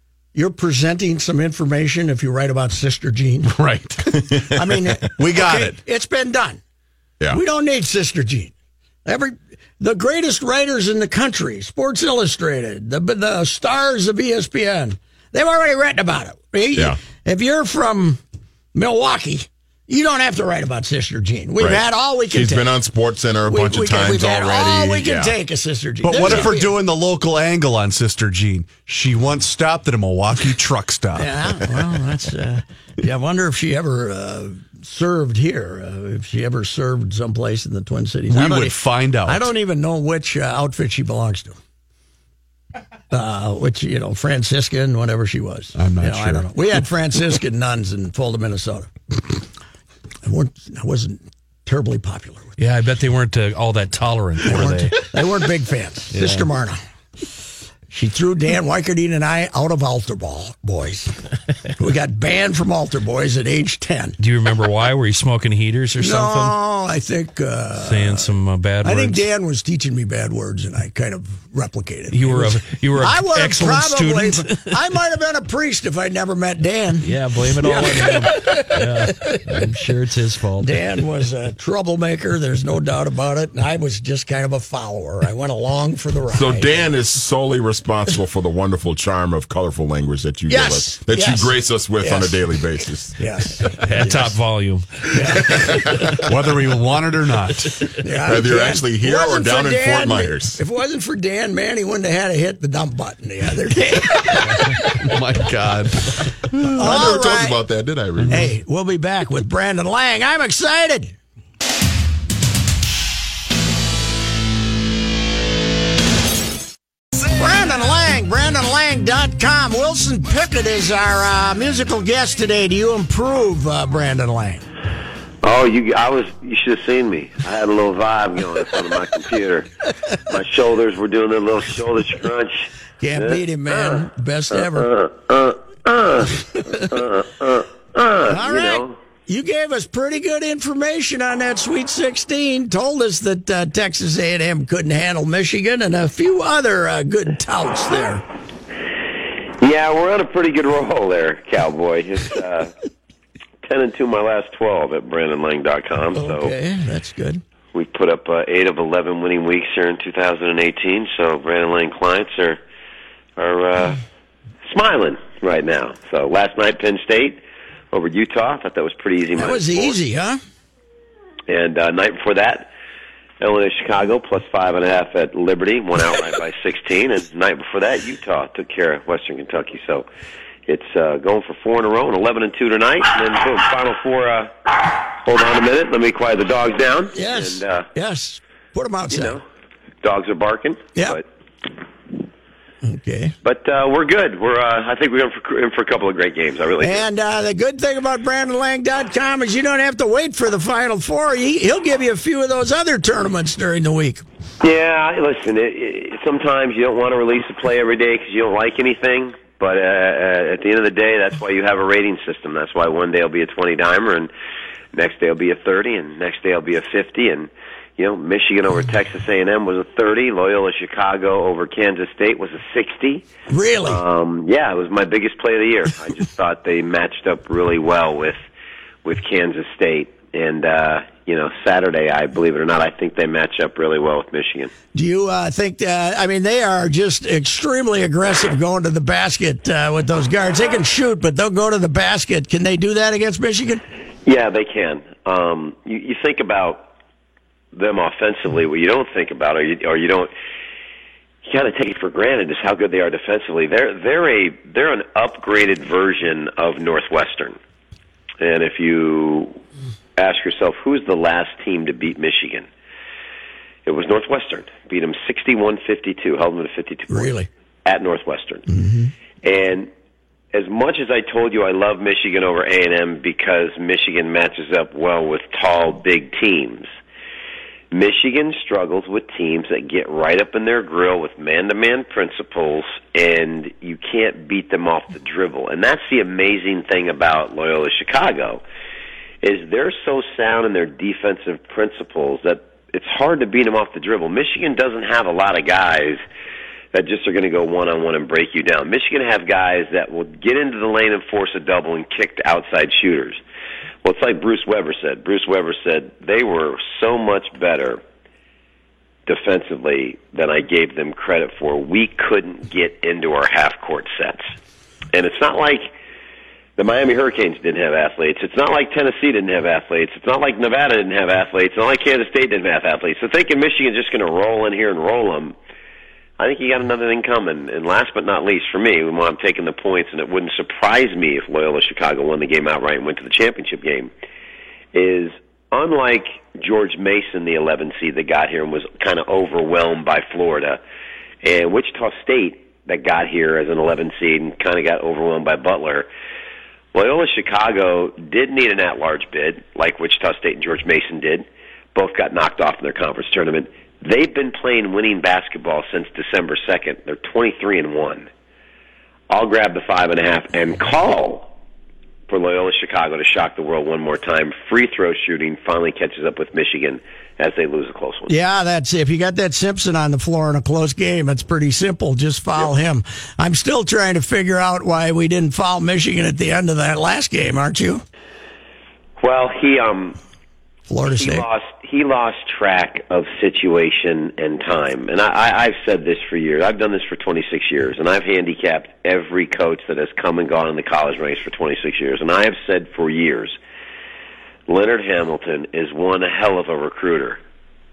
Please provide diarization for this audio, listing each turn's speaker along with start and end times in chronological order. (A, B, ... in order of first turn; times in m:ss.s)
0:00.3-0:03.6 A
0:03.5-0:04.3 B
0:04.1-0:04.5 C
0:04.6-0:06.6 A
0:05.2-0:05.8 B
0:07.3-0:08.5 A
0:09.0-0:18.2 A
0:18.7-0:22.7 A
0:21.6-0:25.3 C
0:23.5-0:26.8 A
0:26.0-0:31.3 B
0:26.2-0:26.5 C
0:31.1-0:41.6 A
0:38.3-0:39.4 B
0:43.1-0:49.4 A
0:45.8-0:46.5 B
0:50.2-0:52.6 A
0:52.6-0:55.0 D
0:54.4-0:56.8 A
0:56.1-0:56.5 D
0:57.9-1:04.2 A
1:04.2-1:06.6 D
1:06.0-1:19.9 A
1:07.8-1:09.2 D
1:12.1-1:14.7 D
1:17.0-1:20.8 D
1:20.6-1:26.8 A
1:26.3-1:33.2 C
1:30.5-1:32.4 A
1:33.1-1:34.4 A
1:33.8-1:35.6 D
1:35.1-1:35.8 A
1:36.2-1:37.8 B
1:38.0-1:45.0 A
1:38.2-1:40.6 C
1:44.5-1:46.8 B
1:46.6-1:48.5 C
1:46.8-1:47.6 A
1:48.2-1:48.5 B
1:48.3-1:51.1 A
1:57.3-2:04.6 A
2:05.4-2:14.0 E
2:13.0-2:14.9 A
2:14.7-2:19.0 E
2:18.2-2:28.2 A
2:29.6-2:32.7 E
2:33.6-2:36.5 E
2:36.1-2:37.4 A
2:37.7-2:42.6 E
2:43.4-2:44.0 E
2:44.6-2:47.4 E
2:47.9-2:50.0 E
2:49.4-2:50.4 A
2:51.5-2:52.7 E
2:53.4-3:00.0 E
3:00.7-3:04.5 E
3:05.1-3:07.9 E
3:07.1-3:09.4 A
3:09.1-3:09.4 E
3:10.0-3:11.2 E
3:10.9-3:11.2 A
3:12.8-3:13.3 A
3:13.4-3:17.0 E
3:16.8-3:24.2 A
3:24.6-3:34.3 E
3:34.9-3:43.2 E
3:43.5-3:44.0 A
3:43.8-3:48.4 E
3:49.0-3:54.7 E
3:54.9-4:03.8 A
4:04.2-4:06.8 E
4:07.7-4:10.3 E
4:11.4-4:17.6 E
4:18.4-4:19.6 E
4:20.2-4:22.7 E
4:23.8-4:27.3 E
4:27.1-4:27.5 A
4:27.8-4:28.6 E
4:28.7-4:29.1 A
4:29.4-4:29.9 E
4:30.5-4:36.9 E
4:37.9-4:48.6 E
4:49.4-4:56.2 E
4:56.9-5:03.4 E
5:04.0-5:08.0 E
5:09.3-5:14.5 E
5:15.1-5:15.9 E
5:16.8-5:25.6 E
5:26.4-5:34.1 E
5:34.9-5:40.8 E
5:41.4-5:46.1 E
5:46.9-5:58.3 E
5:59.3-6:01.5 E
6:02.3-6:08.3 E
6:08.3-6:18.0 A
6:19.2-6:20.2 E
6:20.9-6:21.5 A
6:21.0-6:33.6 E
6:34.7-6:37.4 E